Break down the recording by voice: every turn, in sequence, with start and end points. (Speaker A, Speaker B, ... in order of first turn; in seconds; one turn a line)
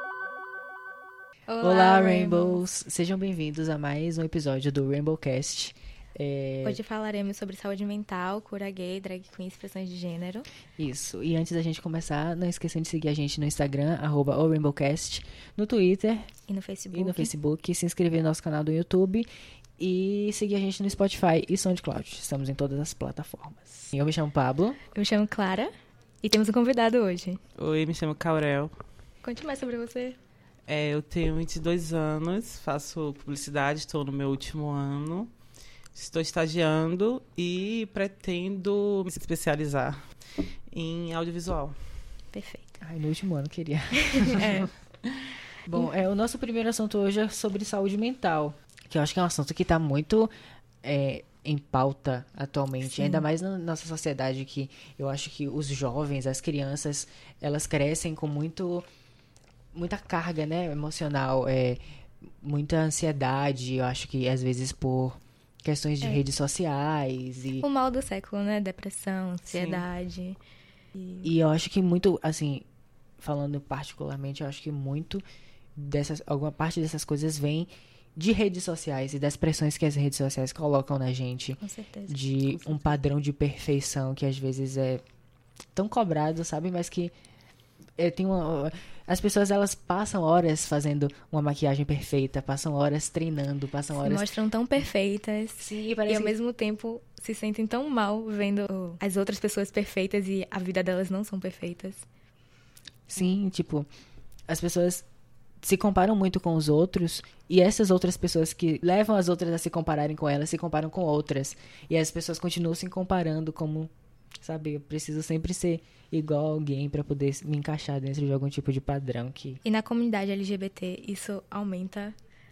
Speaker A: 1.5-2.6
Speaker B: 1.6-6.8
Speaker A: 6.6-10.5
Speaker B: 10.8-16.3
Speaker A: 16.5-17.3
Speaker B: 16.9-19.3
Speaker B: 19.8-24.8
Speaker A: 24.9-25.7
Speaker A: 26.2-27.4
Speaker C: 27.6-28.7
Speaker A: 29.2-30.2
Speaker C: 30.7-35.3
Speaker C: 35.9-40.0
Speaker C: 40.7-41.7
Speaker A: 42.3-42.8
Speaker B: 42.8-44.7
Speaker A: 44.0-44.7
Speaker B: 45.6-50.3
Speaker B: 50.8-58.9
Speaker A: 52.9-53.2
Speaker B: 59.7-61.8
Speaker B: 62.4-67.7
Speaker A: 67.6-70.4
Speaker C: 69.5-69.8
Speaker A: 71.0-71.3
Speaker B: 71.2-72.7
Speaker B: 73.2-75.2
Speaker B: 75.8-85.0
Speaker A: 81.6-82.2
Speaker C: 82.6-82.9
Speaker B: 85.7-87.1
Speaker B: 88.0-94.3
Speaker A: 94.0-102.0
Speaker B: 95.6-96.3
Speaker B: 103.1-103.9
Speaker B: 104.5-105.0
Speaker B: 105.6-113.9
Speaker B: 114.4-119.6
Speaker A: 119.6-122.1